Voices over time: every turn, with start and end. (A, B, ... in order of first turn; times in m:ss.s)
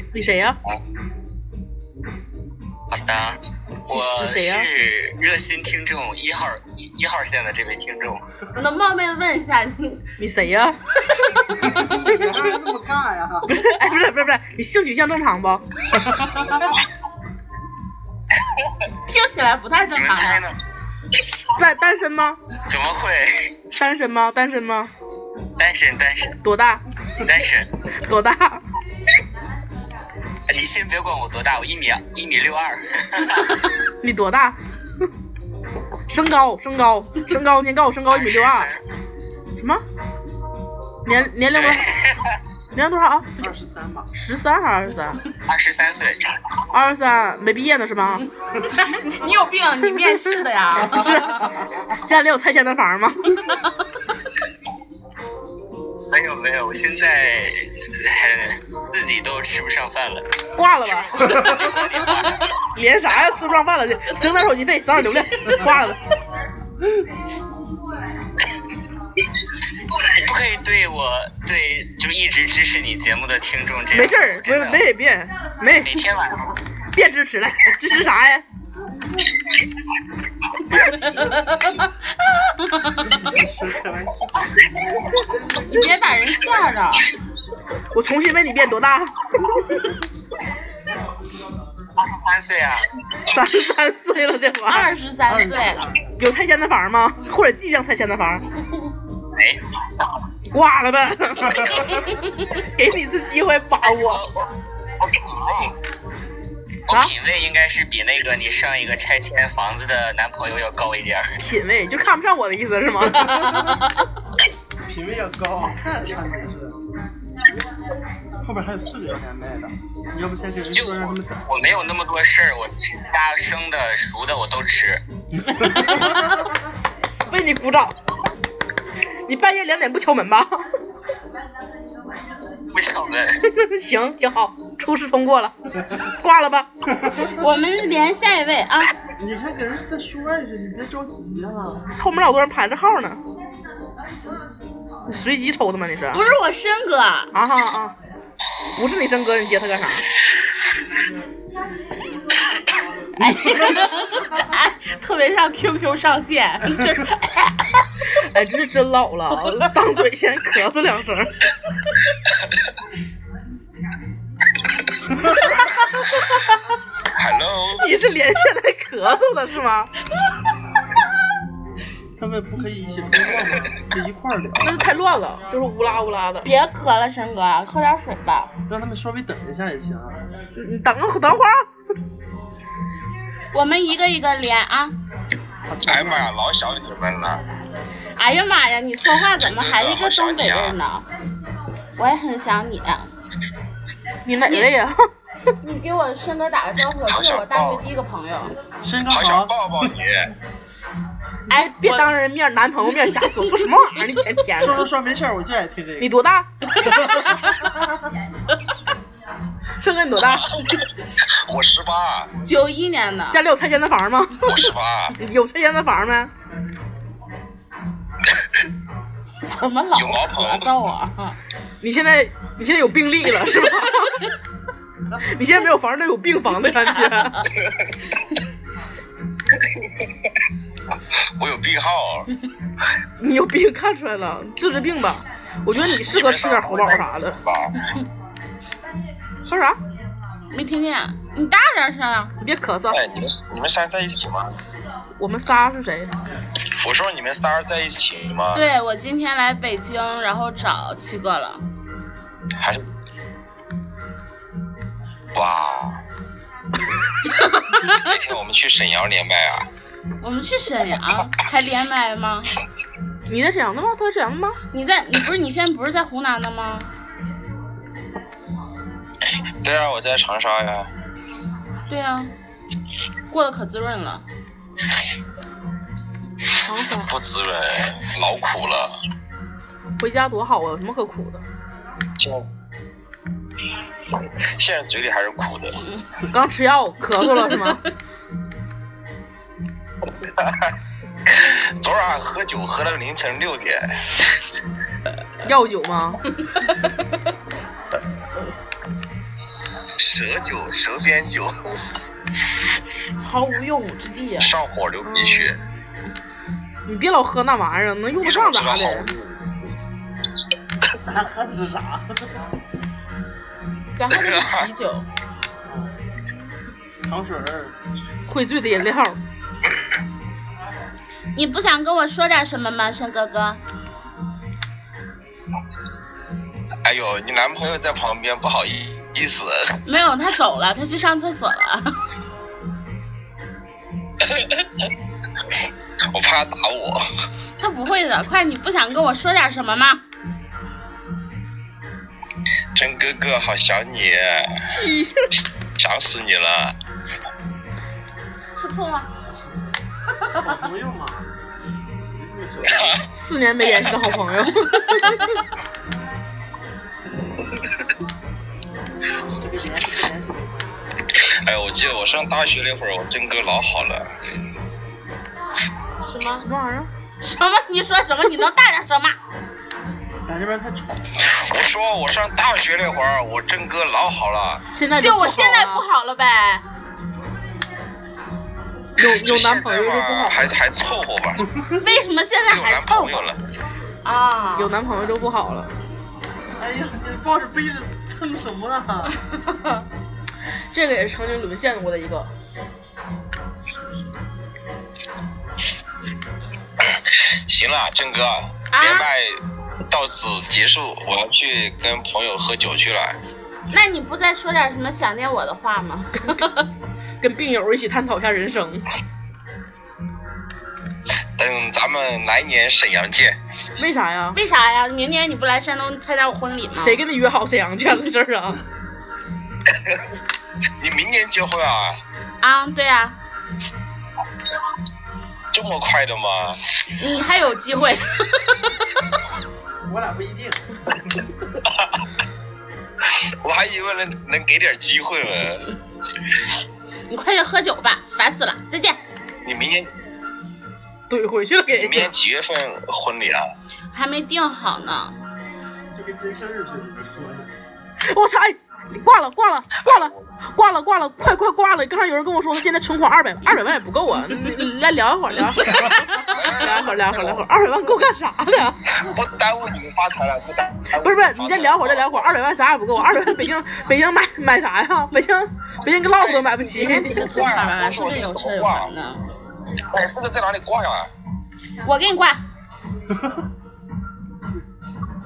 0:00.1-0:00.6 A
0:02.9-0:03.4 B
0:03.9-0:08.2 B
0:03.9-0:04.7 A
0:08.6-0:10.0 C
0:10.2-0:10.8 A
0:11.1-0:11.8 C
0:11.7-0:13.5 D
0:12.1-0:12.4 A
0:13.5-0:15.6 A
0:19.1-0:20.5 C
0:20.0-0:20.6 B
0:21.6-0:22.4 A
0:22.7-0:23.3 B
0:23.8-0:24.9 A
0:25.6-0:26.4 B
0:26.4-0:26.8 A
0:27.2-0:27.7 B
0:28.0-0:28.6 A
0:30.5-0:33.5 B
0:34.0-0:34.6 A
0:36.1-0:38.7 A
0:38.1-0:38.8 B
0:41.1-0:41.9 A
0:41.5-0:42.2 B
0:42.7-0:43.3 A
0:43.4-0:44.1 D
0:44.1-0:45.2 A
0:45.5-0:46.2 B
0:46.7-0:48.2 A
0:48.7-0:51.6 C
0:50.9-0:53.4 A
0:53.4-0:53.7 C
0:56.1-0:57.5 B
0:58.1-1:00.2 B
1:00.6-1:01.4 A
1:00.8-1:02.4 B
1:02.8-1:06.0 A
1:09.9-1:14.8 B
1:13.9-1:16.0 A
1:15.8-1:16.5 B
1:16.9-1:18.4 A
1:20.7-1:23.3 C
1:23.1-1:24.5 D
1:25.6-1:27.1 C
1:27.9-1:29.8 A
1:32.1-1:32.8 B
1:33.3-1:34.9 A
1:34.7-1:35.9 C
1:35.3-1:36.1 D
1:36.2-1:38.4 A
1:40.5-1:42.0 A
1:42.8-1:44.2 A
1:43.8-1:44.3 B
1:45.0-1:45.7 B
1:46.9-1:51.2 B
1:51.4-1:53.7 A
1:53.2-1:53.7 C
1:54.9-1:56.8 D
1:58.4-2:01.5 D
2:00.7-2:05.0 B
2:05.8-2:06.2 C
2:07.3-2:07.9 A
2:09.3-2:10.6 A
2:12.7-2:13.3 B
2:13.5-2:15.5 A
2:16.1-2:16.7 A
2:17.2-2:18.9 C
2:19.2-2:21.8 D
2:22.0-2:23.2 A
2:25.1-2:26.2 A
2:26.1-2:27.3 C
2:27.3-2:27.9 A
2:28.8-2:30.0 A
2:33.2-2:37.8 C
2:38.2-2:41.3 A
2:47.2-2:47.9 E
2:47.8-2:49.9 A
2:52.2-2:55.0 D
2:54.6-2:56.5 A
2:56.4-2:58.5 C
2:58.7-3:00.2 D
3:00.6-3:01.6 A
3:03.5-3:05.0 C
3:05.7-3:06.3 D
3:05.8-3:07.4 E
3:08.2-3:11.0 C
3:09.4-3:10.8 E
3:12.0-3:13.1 C
3:14.2-3:15.0 A
3:14.4-3:14.7 C
3:15.6-3:18.5 C
3:17.1-3:17.8 E
3:18.8-3:19.5 D
3:19.1-3:20.3 E
3:21.5-3:22.1 C
3:21.5-3:24.9 A
3:22.9-3:24.0 C
3:24.6-3:26.1 D
3:26.0-3:27.0 A
3:26.9-3:27.8 D
3:29.8-3:30.5 A
3:31.5-3:32.3 E
3:32.4-3:33.4 C
3:33.3-3:34.6 A
3:34.5-3:35.2 E
3:35.2-3:36.3 A
3:39.5-3:41.4 C
3:40.0-3:40.7 E
3:41.8-3:44.2 A
3:45.2-3:47.4 A
3:47.6-3:47.9 E
3:49.7-3:50.3 E
3:51.4-3:52.3 E
3:53.2-3:57.4 A
3:55.9-3:57.7 E
3:59.5-3:59.8 A
4:00.5-4:02.3 C
4:02.4-4:03.0 A
4:02.9-4:04.6 E
4:05.2-4:06.1 A
4:06.8-4:08.6 E
4:08.5-4:11.6 C
4:15.4-4:16.0 E
4:17.3-4:18.0 C
4:17.9-4:19.7 E
4:20.2-4:22.5 C
4:23.3-4:24.6 A
4:24.7-4:26.9 C
4:29.6-4:30.9 E
4:31.9-4:32.3 C
4:33.3-4:34.2 C
4:36.6-4:37.1 A
4:37.1-4:39.0 E
4:40.0-4:41.4 A
4:42.2-4:42.5 E
4:44.4-4:45.8 E
4:46.3-4:47.8 A
4:47.4-4:47.8 C
4:50.2-4:50.7 E
4:51.3-4:54.1 E
4:55.4-4:56.2 A
4:56.4-4:56.9 C
5:00.0-5:01.8 E
5:03.2-5:04.5 C
5:04.4-5:05.6 E
5:05.1-5:05.6 A
5:06.9-5:09.1 A
5:08.2-5:09.4 E
5:11.1-5:12.3 D
5:14.0-5:15.1 C
5:14.1-5:14.7 E
5:15.7-5:15.9 D
5:17.0-5:17.8 D
5:18.3-5:19.2 A
5:21.4-5:23.6 C
5:26.8-5:29.7 E
5:29.9-5:31.9 C
5:34.3-5:34.7 E
5:36.1-5:37.0 E
5:37.6-5:40.0 C
5:42.8-5:44.5 E
5:44.8-5:45.3 A
5:45.8-5:46.8 E
5:48.6-5:49.1 C
5:50.4-5:51.3 D
5:52.1-5:53.0 D
5:52.6-5:53.0 E
5:53.1-5:55.3 A
5:59.4-6:00.8 D
6:01.4-6:04.1 E
6:06.1-6:06.5 C
6:06.4-6:06.9 A
6:07.2-6:09.2 C
6:10.3-6:11.1 D
6:11.3-6:14.6 E
6:14.7-6:15.9 A
6:15.0-6:16.6 C
6:19.0-6:20.5 A
6:19.0-6:21.4 E
6:21.8-6:23.3 C
6:22.5-6:23.4 E
6:24.0-6:24.7 C
6:24.6-6:25.7 A
6:26.6-6:29.1 D
6:29.3-6:29.8 C
6:30.7-6:32.3 A
6:37.3-6:39.4 E
6:38.7-6:39.1 C
6:39.9-6:43.2 E
6:43.7-6:46.6 C
6:47.2-6:48.8 A
6:51.4-6:53.4 E
6:53.8-6:54.4 A
6:54.3-6:57.0 C
6:56.8-6:58.6 A
7:00.8-7:02.0 E
7:02.4-7:03.2 C
7:05.5-7:06.6 E
7:07.0-7:08.9 C
7:09.9-7:10.6 D
7:13.4-7:15.7 E
7:17.1-7:19.0 C
7:19.4-7:19.9 E
7:21.1-7:22.1 A
7:21.7-7:23.5 E
7:23.9-7:25.2 C
7:26.0-7:27.5 D
7:28.1-7:36.1 A
7:29.8-7:30.3 E
7:34.2-7:34.6 C
7:35.4-7:36.2 C
7:36.3-7:37.4 E
7:36.6-7:38.8 A
7:39.0-7:42.3 E
7:41.0-7:47.3 A
7:46.2-7:48.9 E
7:46.8-7:49.2 C
7:49.9-7:51.1 E
7:51.8-7:52.4 C